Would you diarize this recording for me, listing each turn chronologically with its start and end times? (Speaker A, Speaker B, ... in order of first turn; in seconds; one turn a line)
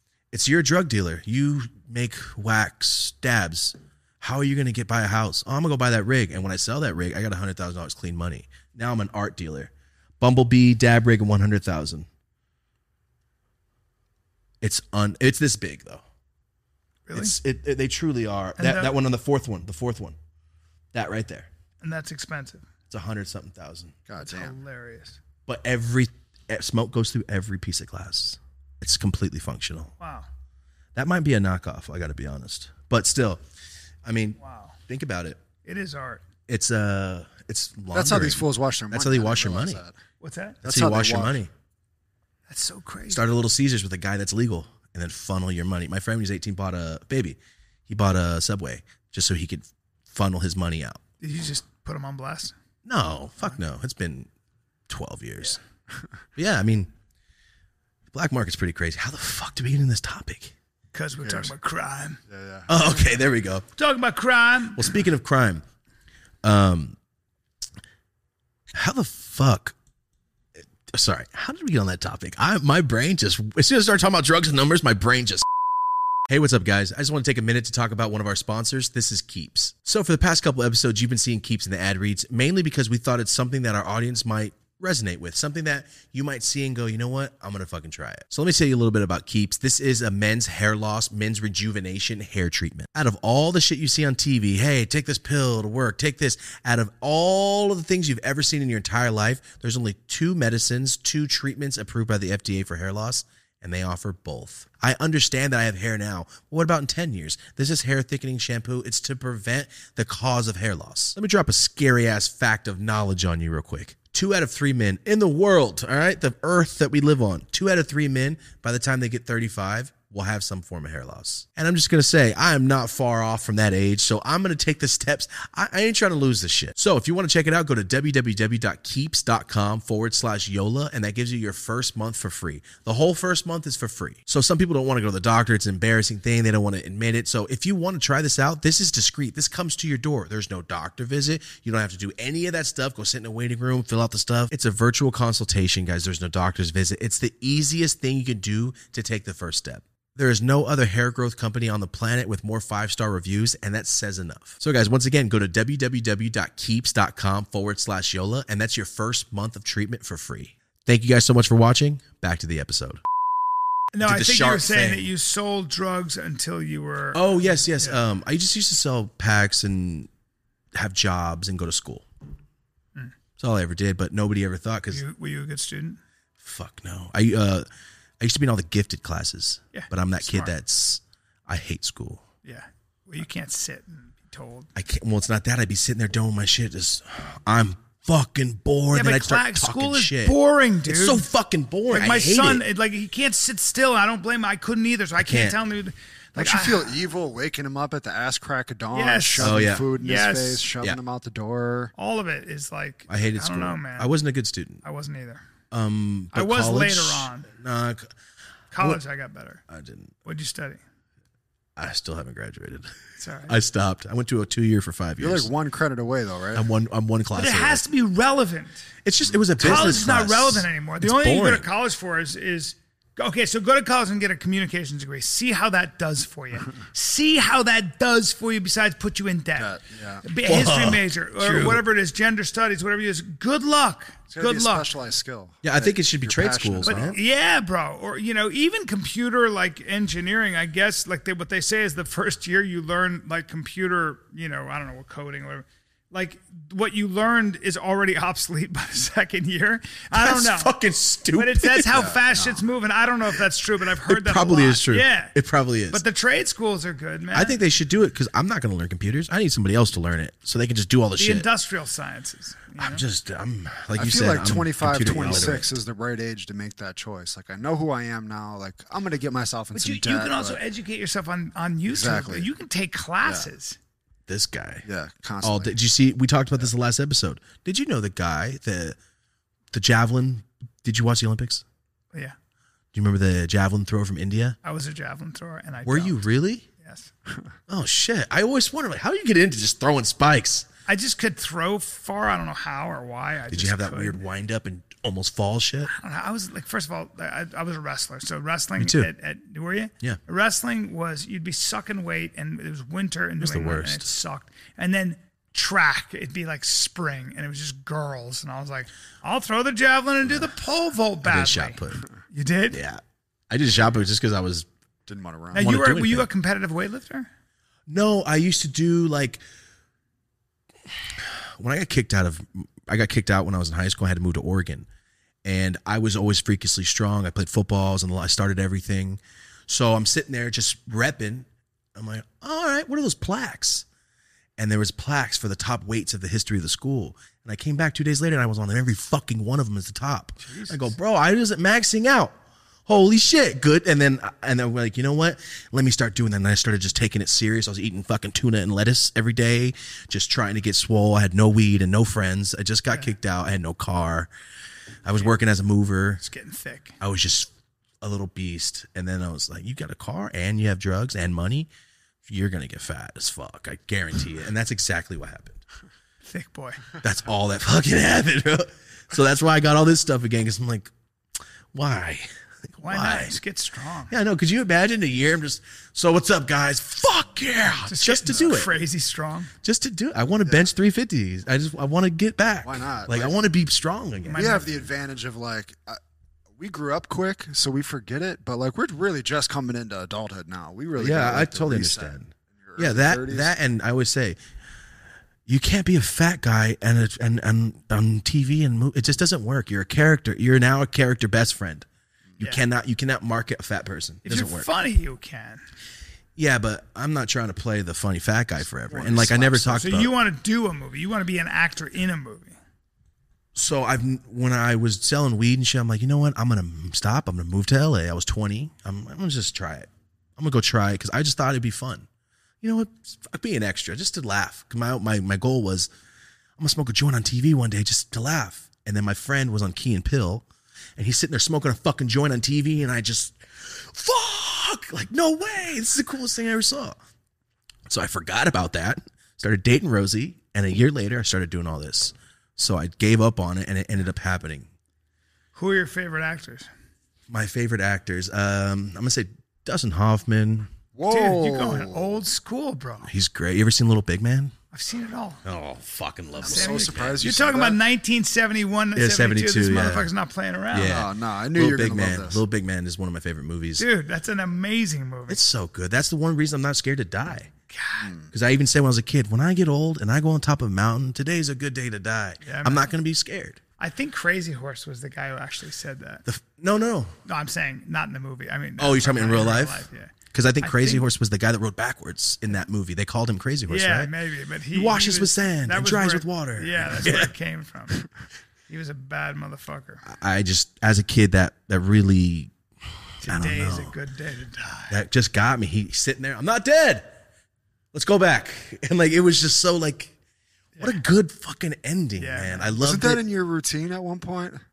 Speaker A: 0.3-12.1
Speaker A: 14.6-16.0
Speaker B: 17.1-17.4
Speaker A: 17.1-20.2
Speaker B: 18.6-18.9
Speaker A: 20.9-21.5
Speaker B: 21.8-22.6
Speaker A: 22.9-23.9
Speaker C: 24.1-24.5
Speaker B: 24.2-25.2
Speaker A: 25.5-29.9
Speaker B: 30.0-30.3
Speaker A: 30.9-33.4
Speaker A: 34.0-35.4
Speaker B: 34.4-34.8
Speaker B: 35.6-36.2
Speaker A: 36.5-39.8
Speaker C: 37.9-40.0
Speaker B: 40.2-40.6
Speaker C: 40.6-41.4
Speaker A: 40.6-41.5
Speaker B: 42.5-43.2
Speaker A: 43.1-51.0
Speaker B: 51.2-52.5
Speaker A: 52.9-54.3
Speaker A: 54.9-55.6
Speaker A: 56.4-56.9
Speaker A: 58.1-60.5
Speaker B: 60.9-62.2
Speaker C: 61.2-61.5
Speaker C: 62.3-62.7
Speaker A: 62.7-63.7
Speaker B: 63.8-64.9
Speaker A: 64.8-65.6
Speaker A: 66.4-67.0
Speaker A: 68.7-69.8
Speaker A: 70.9-75.5
Speaker A: 76.3-163.0
Speaker B: 163.9-168.0
Speaker A: 164.0-165.1
Speaker A: 167.1-170.1
Speaker A: 170.8-172.1
Speaker A: 173.4-175.0
Speaker B: 174.9-176.0
Speaker A: 176.4-177.7
Speaker A: 178.2-182.2
Speaker B: 179.7-180.5
Speaker B: 182.4-184.7
Speaker A: 184.8-192.6
Speaker B: 188.9-191.2
Speaker B: 191.9-197.0
Speaker A: 195.2-195.6
Speaker C: 196.4-201.9
Speaker B: 198.9-200.7
Speaker A: 199.4-199.9
Speaker B: 202.0-204.1
Speaker A: 203.1-204.8
Speaker B: 204.8-205.4
Speaker A: 205.7-208.1
Speaker B: 206.3-207.5
Speaker B: 208.7-209.6
Speaker A: 209.7-210.2
Speaker B: 210.3-210.8
Speaker A: 211.8-212.9
Speaker B: 213.2-213.6
Speaker A: 213.5-215.5
Speaker C: 215.2-216.6
Speaker A: 216.5-217.8
Speaker B: 217.3-218.9
Speaker A: 219.1-221.7
Speaker B: 219.6-234.9
Speaker C: 219.6-220.0
Speaker C: 229.6-230.3
Speaker A: 230.4-231.8
Speaker C: 234.3-237.2
Speaker A: 235.6-237.2
Speaker B: 236.8-250.7
Speaker A: 250.1-252.1
Speaker B: 251.3-255.3
Speaker C: 251.9-252.6
Speaker A: 254.1-256.0
Speaker B: 255.9-257.6
Speaker A: 257.3-261.5
Speaker B: 261.2-263.0
Speaker A: 262.8-265.7
Speaker C: 264.0-270.6
Speaker B: 265.1-265.6
Speaker B: 269.7-273.8
Speaker C: 271.9-272.5
Speaker A: 274.3-274.9
Speaker C: 274.9-275.7
Speaker A: 275.4-279.0
Speaker A: 279.7-281.6
Speaker A: 282.9-284.6
Speaker B: 284.6-286.2
Speaker A: 285.9-286.7
Speaker B: 286.8-287.1
Speaker A: 287.7-290.7
Speaker B: 290.9-294.2
Speaker A: 293.5-295.9
Speaker B: 295.9-311.8
Speaker A: 298.8-299.1
Speaker A: 303.4-304.1
Speaker A: 311.2-312.0
Speaker B: 312.3-312.8
Speaker A: 312.7-314.7
Speaker C: 315.1-315.7
Speaker B: 315.5-317.3
Speaker A: 315.6-316.3
Speaker A: 317.9-319.4
Speaker A: 320.9-324.9
Speaker A: 325.4-333.9
Speaker A: 334.6-354.3
Speaker B: 340.5-340.9
Speaker A: 355.1-356.2
Speaker B: 356.2-357.0
Speaker A: 357.0-361.7
Speaker A: 362.2-365.6
Speaker B: 366.2-366.9
Speaker A: 367.0-370.9
Speaker A: 371.7-373.4
Speaker B: 372.8-374.1
Speaker A: 374.1-378.7
Speaker B: 377.9-379.5
Speaker A: 379.6-384.6
Speaker C: 382.6-383.4
Speaker B: 384.2-384.6
Speaker C: 384.4-386.0
Speaker C: 386.6-393.5
Speaker A: 391.0-394.4
Speaker A: 395.5-401.9
Speaker A: 402.4-404.7
Speaker B: 404.3-405.6
Speaker A: 406.4-410.1
Speaker C: 408.9-409.8
Speaker B: 409.7-412.6
Speaker A: 413.6-422.1
Speaker A: 422.6-425.9
Speaker A: 426.6-430.4
Speaker A: 431.0-437.0
Speaker A: 437.9-444.7
Speaker B: 445.6-446.7
Speaker A: 447.3-450.7
Speaker C: 450.9-452.0
Speaker B: 451.1-453.1
Speaker A: 453.0-454.5
Speaker B: 454.7-455.4
Speaker A: 455.4-457.3
Speaker C: 456.4-457.8
Speaker B: 456.4-461.1
Speaker A: 458.9-460.1
Speaker A: 460.7-463.9
Speaker C: 460.8-462.4
Speaker B: 463.8-465.4
Speaker A: 465.3-467.5
Speaker B: 467.7-468.1
Speaker A: 468.3-473.6
Speaker B: 472.4-472.9
Speaker B: 473.8-476.2
Speaker A: 476.3-477.2
Speaker B: 477.3-481.1
Speaker A: 478.8-484.1
Speaker B: 483.7-488.1
Speaker A: 484.7-487.3
Speaker B: 488.7-490.1
Speaker A: 490.1-492.5
Speaker B: 493.2-495.0
Speaker A: 493.2-493.9
Speaker A: 494.9-497.1
Speaker A: 497.9-500.1
Speaker A: 500.8-503.2
Speaker B: 502.2-502.8
Speaker C: 502.8-504.6